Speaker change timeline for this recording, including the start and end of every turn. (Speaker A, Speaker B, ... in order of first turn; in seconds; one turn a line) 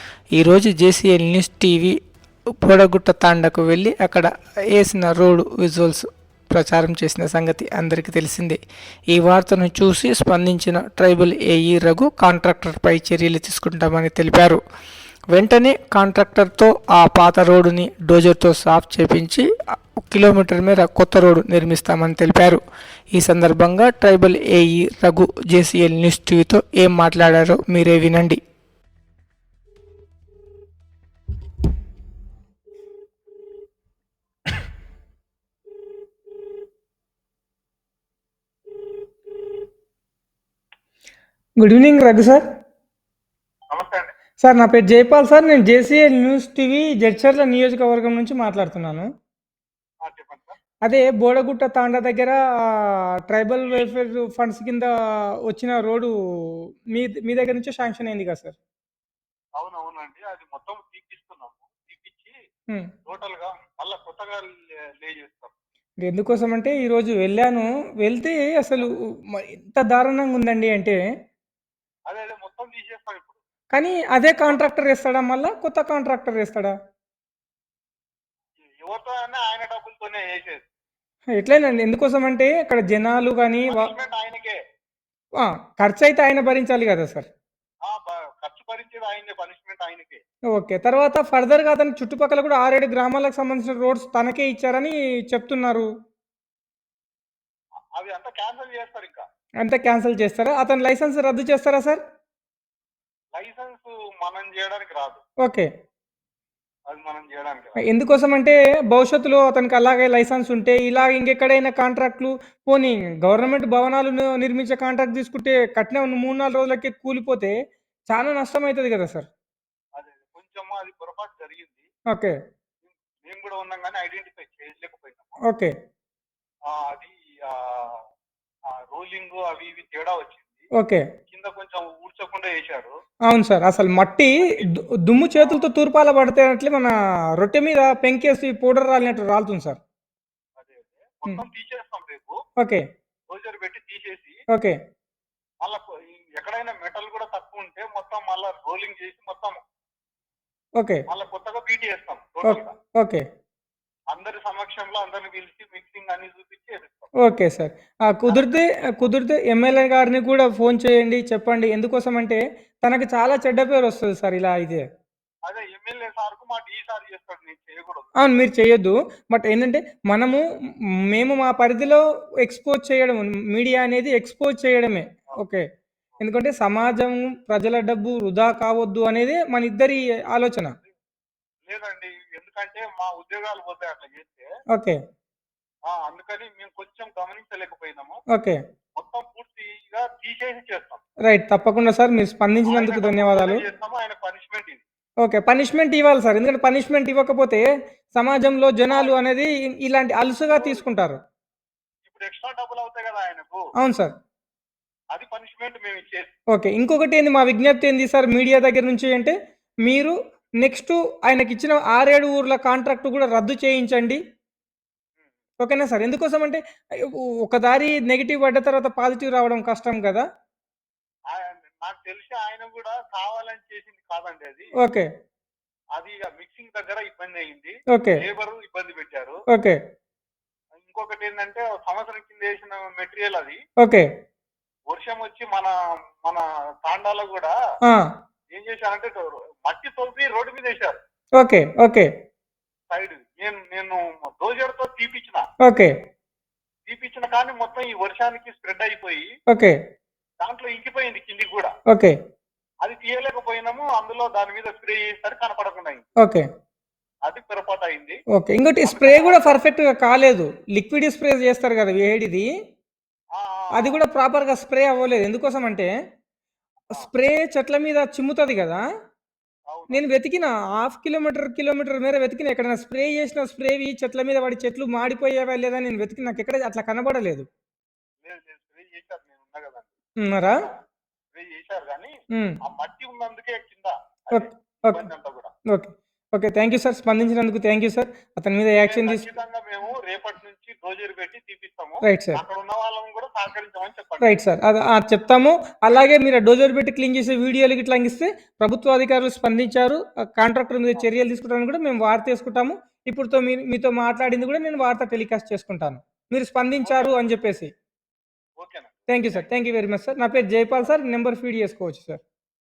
Speaker A: 0.4-2.0
Speaker A: 2.6-8.6
Speaker A: 9.1-14.6
Speaker A: 15.3-22.6
Speaker A: 23.1-28.4
Speaker A: 41.6-42.5
Speaker B: 43.7-44.1
Speaker A: 44.4-49.1
Speaker B: 50.0-50.5
Speaker A: 50.9-54.9
Speaker A: 55.5-58.6
Speaker B: 59.6-62.3
Speaker B: 63.1-65.5
Speaker A: 66.0-71.0
Speaker B: 72.1-73.4
Speaker A: 73.7-76.7
Speaker B: 74.4-74.7
Speaker B: 78.6-80.7
Speaker A: 81.3-83.9
Speaker B: 83.7-84.6
Speaker A: 85.4-87.3
Speaker B: 87.8-90.2
Speaker A: 90.6-95.9
Speaker B: 98.0-99.3
Speaker A: 99.6-102.0
Speaker B: 103.3-105.2
Speaker B: 106.9-107.8
Speaker A: 107.8-117.5
Speaker A: 118.1-119.3
Speaker B: 120.0-121.9
Speaker A: 122.1-122.4
Speaker B: 122.9-125.3
Speaker B: 126.7-128.1
Speaker B: 128.7-130.7
Speaker A: 130.8-131.0
Speaker B: 131.3-132.9
Speaker A: 133.3-139.8
Speaker B: 134.4-134.7
Speaker B: 135.3-135.7
Speaker B: 140.6-142.4
Speaker A: 142.6-142.8
Speaker B: 143.3-144.4
Speaker B: 145.6-149.6
Speaker B: 151.1-152.8
Speaker A: 152.4-153.2
Speaker B: 154.1-157.1
Speaker A: 157.2-164.8
Speaker B: 158.3-159.1
Speaker B: 165.5-168.1
Speaker A: 168.2-170.4
Speaker A: 171.1-175.6
Speaker A: 176.2-180.7
Speaker B: 181.7-184.5
Speaker B: 185.9-188.2
Speaker A: 188.3-188.6
Speaker B: 189.0-191.0
Speaker A: 191.3-193.6
Speaker B: 192.7-194.8
Speaker A: 195.2-197.6
Speaker A: 198.1-201.2
Speaker B: 198.9-199.2
Speaker B: 200.5-200.9
Speaker B: 202.1-203.7
Speaker A: 203.8-204.1
Speaker B: 205.1-206.3
Speaker A: 206.5-209.3
Speaker A: 209.9-214.2
Speaker A: 215.6-216.6
Speaker A: 217.4-220.2
Speaker B: 221.3-224.7
Speaker A: 224.8-225.1
Speaker B: 226.0-229.4
Speaker A: 227.9-228.2
Speaker A: 229.5-229.8
Speaker B: 230.8-233.6
Speaker B: 234.9-237.6
Speaker B: 238.5-241.0
Speaker A: 241.4-242.1
Speaker B: 242.9-245.4
Speaker A: 245.7-245.9
Speaker B: 246.9-249.3
Speaker A: 249.5-249.8
Speaker B: 250.4-251.7
Speaker B: 252.8-256.1
Speaker A: 256.2-256.5
Speaker B: 257.3-258.2
Speaker A: 258.3-262.5
Speaker B: 258.8-259.6
Speaker B: 263.4-264.0
Speaker A: 263.8-265.9
Speaker A: 266.9-268.8
Speaker B: 269.7-270.1
Speaker A: 269.9-277.5
Speaker B: 278.2-279.9
Speaker A: 280.2-280.6
Speaker B: 281.3-285.5
Speaker A: 284.3-285.1
Speaker A: 285.7-289.2
Speaker B: 288.9-294.4
Speaker A: 292.0-292.4
Speaker A: 294.2-307.7
Speaker B: 306.8-307.2
Speaker B: 308.6-309.5
Speaker A: 309.1-312.2